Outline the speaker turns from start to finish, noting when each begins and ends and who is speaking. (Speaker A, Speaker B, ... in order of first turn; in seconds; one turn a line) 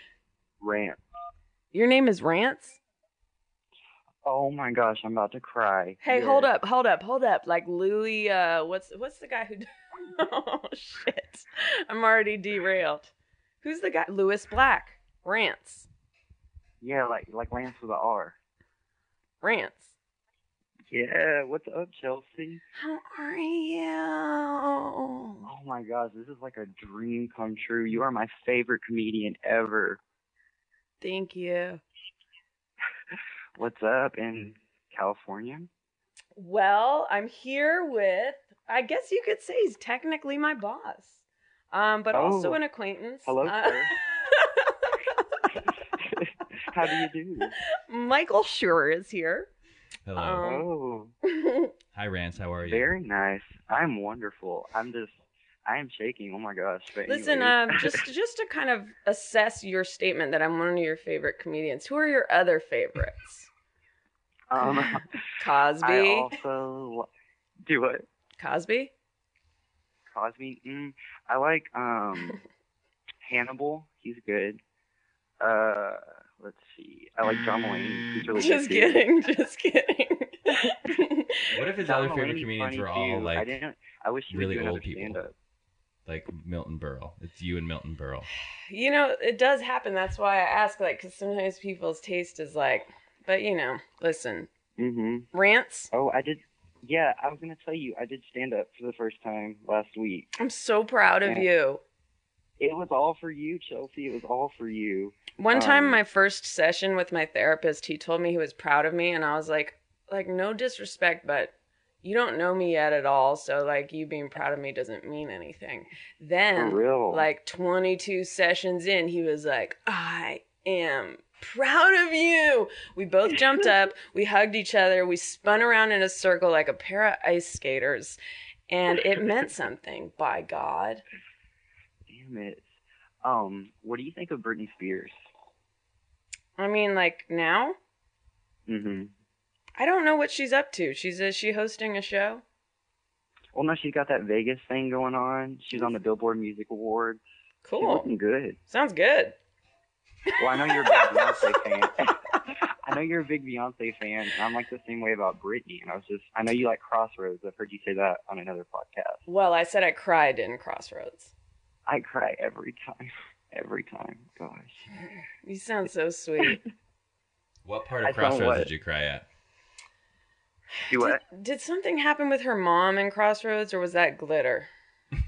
Speaker A: 0.6-1.0
Speaker B: 1.7-2.8
Speaker A: 4.2-6.5
Speaker B: 6.0-13.1
Speaker B: 13.6-15.9
Speaker A: 16.8-18.4
Speaker B: 19.4-19.9
Speaker A: 20.9-22.6
Speaker B: 22.7-25.4
Speaker A: 25.4-30.0
Speaker B: 31.0-31.8
Speaker A: 33.5-35.7
Speaker B: 36.4-44.6
Speaker A: 42.1-42.6
Speaker A: 43.2-43.9
Speaker A: 46.0-47.5
Speaker B: 47.9-49.5
Speaker C: 50.0-50.5
Speaker B: 50.1-50.6
Speaker A: 50.4-51.1
Speaker B: 51.3-51.7
Speaker C: 51.9-52.9
Speaker A: 52.6-55.1
Speaker A: 55.6-58.0
Speaker B: 57.1-63.5
Speaker A: 64.5-65.1
Speaker B: 64.6-64.9
Speaker B: 65.4-66.3
Speaker A: 65.8-67.1
Speaker A: 67.6-68.1
Speaker B: 68.4-68.9
Speaker A: 70.1-72.4
Speaker A: 73.2-74.6
Speaker A: 75.4-79.0
Speaker B: 78.3-81.5
Speaker C: 81.5-83.5
Speaker A: 81.8-85.3
Speaker C: 84.3-85.2
Speaker C: 86.0-88.3
Speaker B: 88.7-94.5
Speaker A: 94.8-95.3
Speaker B: 95.3-95.9
Speaker A: 95.9-100.3
Speaker B: 100.4-101.8
Speaker A: 102.6-106.0
Speaker B: 105.4-128.2
Speaker A: 116.5-117.2
Speaker B: 128.7-131.0
Speaker A: 132.1-132.7
Speaker A: 133.2-135.1
Speaker B: 136.6-137.8
Speaker A: 138.7-139.1
Speaker B: 139.8-142.4
Speaker A: 143.5-147.2
Speaker B: 147.6-148.1
Speaker A: 147.8-148.6
Speaker B: 148.7-149.3
Speaker A: 150.4-159.2
Speaker B: 150.7-151.4
Speaker B: 159.3-161.3
Speaker A: 161.8-164.8
Speaker B: 165.4-166.6
Speaker C: 167.6-169.2
Speaker A: 168.0-168.7
Speaker B: 170.8-174.7
Speaker A: 170.9-171.2